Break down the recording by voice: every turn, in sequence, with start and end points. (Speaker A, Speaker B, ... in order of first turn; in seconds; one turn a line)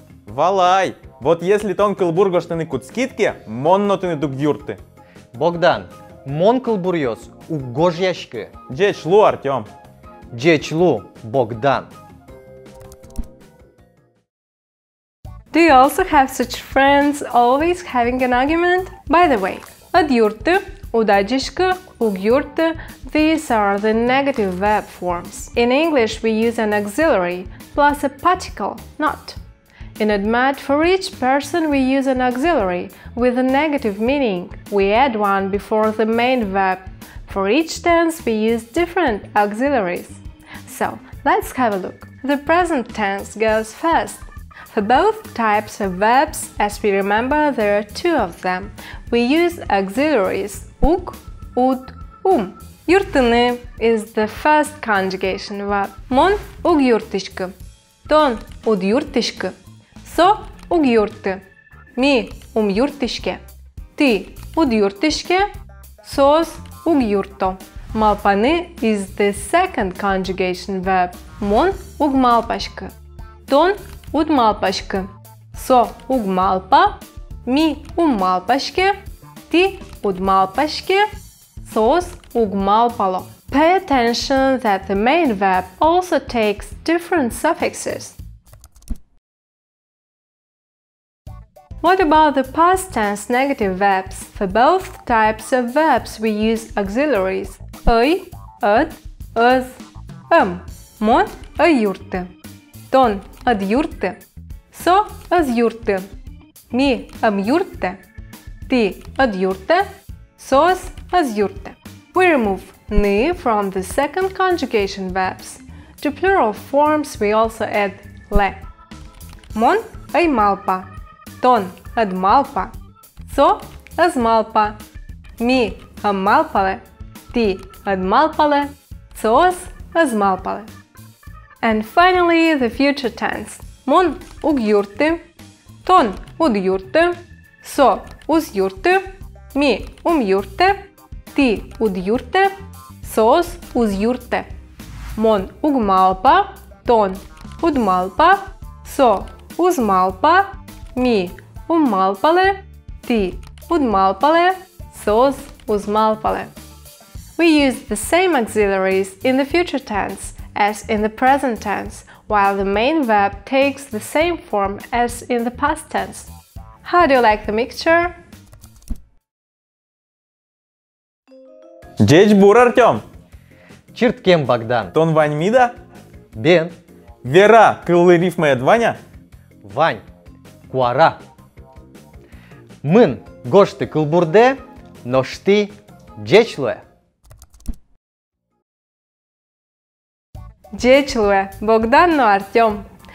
Speaker A: 0.3-4.8
Speaker B: 5.3-8.5
Speaker A: 8.7-9.7
Speaker B: 10.3-11.9
Speaker C: 15.5-29.4
Speaker C: 30.0-57.5
Speaker C: 58.0-61.4
Speaker C: 61.9-63.4
Speaker C: 64.0-65.5
Speaker C: 66.0-72.9
Speaker C: 73.5-79.0
Speaker C: 79.5-81.1
Speaker C: 81.6-88.2
Speaker C: 91.8-99.7
Speaker C: 100.3-102.3
Speaker C: 102.9-104.2
Speaker C: 104.7-106.1
Speaker C: 106.7-108.0
Speaker C: 108.7-109.8
Speaker C: 110.4-118.6
Speaker C: 119.5-122.7
Speaker C: 123.2-124.8
Speaker C: 125.4-130.7
Speaker C: 131.6-135.2
Speaker C: 135.8-144.5
Speaker C: 145.1-156.5
Speaker C: 157.4-166.3
Speaker C: 166.8-168.2
Speaker A: 172.0-173.0
Speaker B: 173.9-174.9
Speaker A: 174.9-175.7
Speaker B: 176.3-176.7
Speaker A: 177.2-179.0
Speaker B: 179.6-180.0
Speaker B: 180.7-181.2
Speaker B: 182.8-186.8
Speaker C: 190.7-192.9